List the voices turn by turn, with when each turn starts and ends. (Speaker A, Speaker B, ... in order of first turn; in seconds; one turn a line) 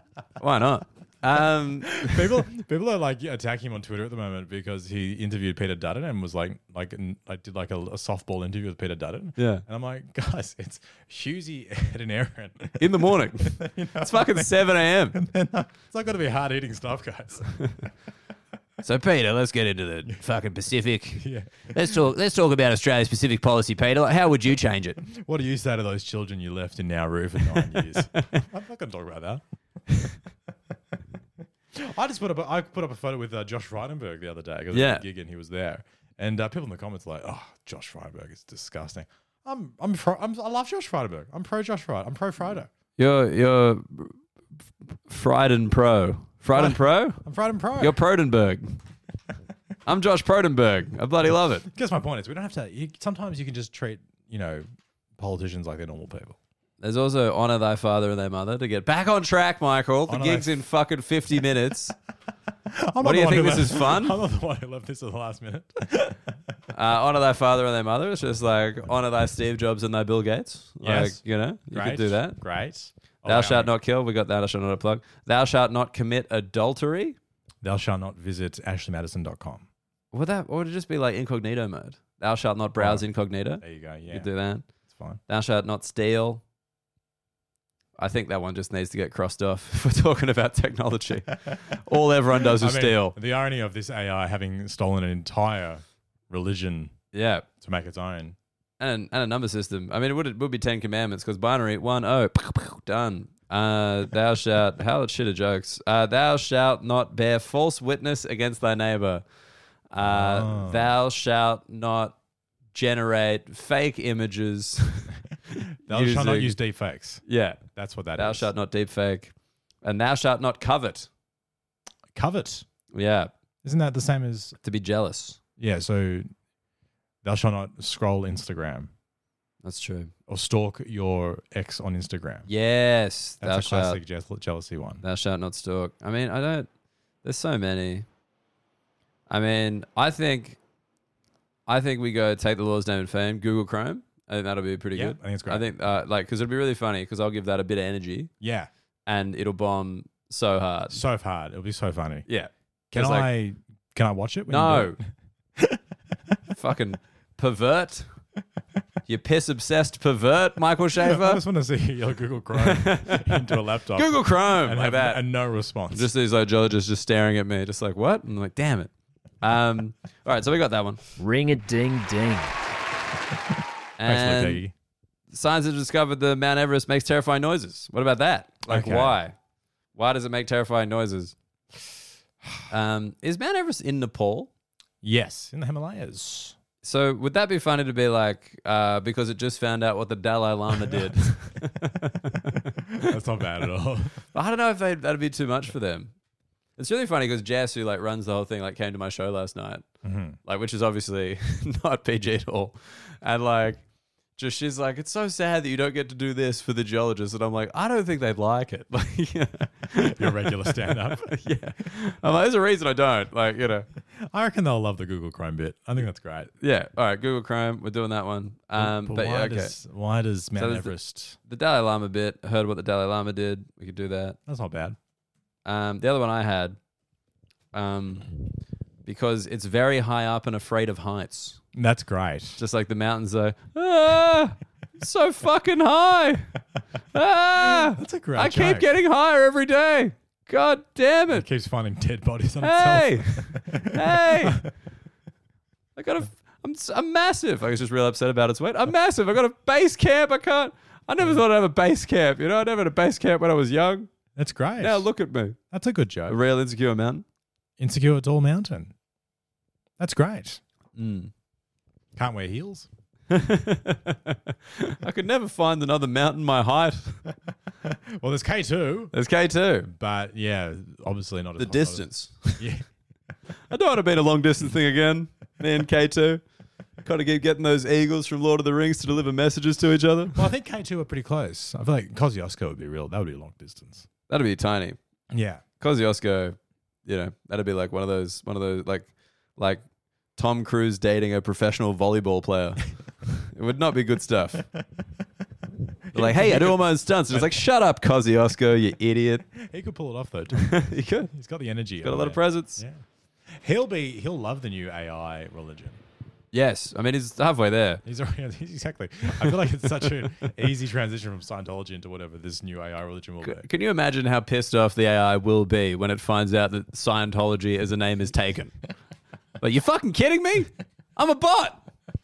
Speaker A: 0.4-2.5
Speaker B: 1.9-17.9
Speaker A: 9.4-9.6
Speaker A: 12.8-15.2
Speaker A: 18.8-21.2
Speaker B: 21.2-22.1
Speaker C: 21.8-24.9
Speaker A: 22.0-24.9
Speaker B: 25.0-29.4
Speaker A: 27.6-28.4
Speaker B: 31.7-42.7
Speaker A: 34.7-35.0
Speaker A: 43.0-44.2
Speaker A: 45.1-47.2
Speaker B: 46.5-48.0
Speaker A: 47.8-48.8
Speaker A: 49.9-51.7
Speaker B: 51.7-54.6
Speaker B: 55.2-56.4
Speaker A: 56.8-62.0
Speaker B: 60.1-60.5
Speaker B: 62.7-66.4
Speaker A: 63.0-64.2
Speaker A: 66.7-72.4
Speaker B: 70.8-73.7
Speaker A: 73.3-77.2
Speaker B: 77.6-79.7
Speaker A: 80.1-84.7
Speaker B: 82.8-83.0
Speaker B: 83.6-84.3
Speaker B: 84.9-85.2
Speaker A: 85.3-86.4
Speaker A: 88.0-93.2
Speaker B: 92.4-96.9
Speaker A: 97.1-97.5
Speaker B: 97.6-98.4
Speaker A: 98.8-109.2
Speaker A: 109.9-112.2
Speaker B: 110.0-110.9
Speaker A: 112.7-116.5
Speaker B: 115.9-118.5
Speaker A: 117.2-117.6
Speaker A: 118.2-121.1
Speaker B: 122.1-122.7
Speaker A: 122.9-123.3
Speaker B: 123.6-124.6
Speaker A: 124.6-125.4
Speaker B: 125.6-126.3
Speaker B: 127.2-128.9
Speaker A: 129.6-130.1
Speaker B: 130.3-132.5
Speaker A: 132.5-134.0
Speaker B: 133.4-135.0
Speaker A: 135.0-136.7
Speaker A: 137.2-138.1
Speaker A: 139.3-140.6
Speaker A: 141.7-148.3
Speaker B: 144.9-145.7
Speaker B: 148.4-148.7
Speaker A: 149.1-151.0
Speaker B: 150.9-152.3
Speaker A: 152.3-153.3
Speaker B: 152.9-155.0
Speaker A: 154.5-155.0
Speaker A: 156.5-158.1
Speaker A: 159.1-161.4
Speaker B: 161.0-166.1
Speaker A: 162.6-165.2
Speaker A: 165.9-168.9
Speaker A: 169.4-171.0
Speaker C: 171.2-172.6
Speaker A: 174.0-174.6
Speaker B: 174.1-174.7
Speaker A: 175.3-179.4
Speaker B: 178.7-179.2
Speaker A: 179.9-181.3
Speaker A: 182.7-184.5
Speaker B: 185.0-186.6
Speaker A: 186.8-193.1
Speaker B: 192.9-194.2
Speaker A: 194.3-196.1
Speaker A: 196.8-199.8
Speaker B: 200.0-200.4
Speaker A: 200.4-203.8
Speaker A: 204.4-213.9
Speaker B: 210.2-211.4
Speaker B: 214.2-216.5
Speaker A: 216.6-219.7
Speaker B: 218.8-221.4
Speaker A: 220.6-220.9
Speaker A: 221.5-224.4
Speaker B: 224.5-225.0
Speaker A: 225.7-226.8
Speaker A: 227.7-228.3
Speaker A: 229.1-231.6
Speaker B: 231.7-232.6
Speaker A: 232.6-236.5
Speaker A: 237.1-241.4
Speaker B: 237.6-238.9
Speaker B: 241.3-244.7
Speaker A: 242.6-244.6
Speaker A: 246.0-254.1
Speaker B: 254.3-255.1
Speaker A: 254.8-255.6
Speaker B: 255.7-256.4
Speaker A: 256.3-257.2
Speaker B: 257.8-258.9
Speaker B: 260.0-260.6
Speaker A: 261.0-261.3
Speaker B: 262.1-262.9
Speaker A: 263.3-267.2
Speaker B: 267.8-269.1
Speaker A: 269.1-269.9
Speaker B: 269.9-272.1
Speaker A: 271.6-272.7
Speaker B: 272.6-272.9
Speaker A: 273.7-276.4
Speaker A: 277.0-280.4
Speaker B: 280.4-284.1
Speaker A: 284.3-285.0
Speaker B: 285.3-285.6
Speaker A: 285.8-289.8
Speaker A: 290.4-294.6
Speaker B: 296.1-297.6
Speaker A: 296.1-299.5
Speaker B: 299.5-306.0
Speaker A: 300.6-301.3
Speaker A: 302.0-302.8
Speaker A: 306.5-308.0
Speaker B: 308.1-313.7
Speaker A: 313.4-318.8
Speaker A: 319.6-321.8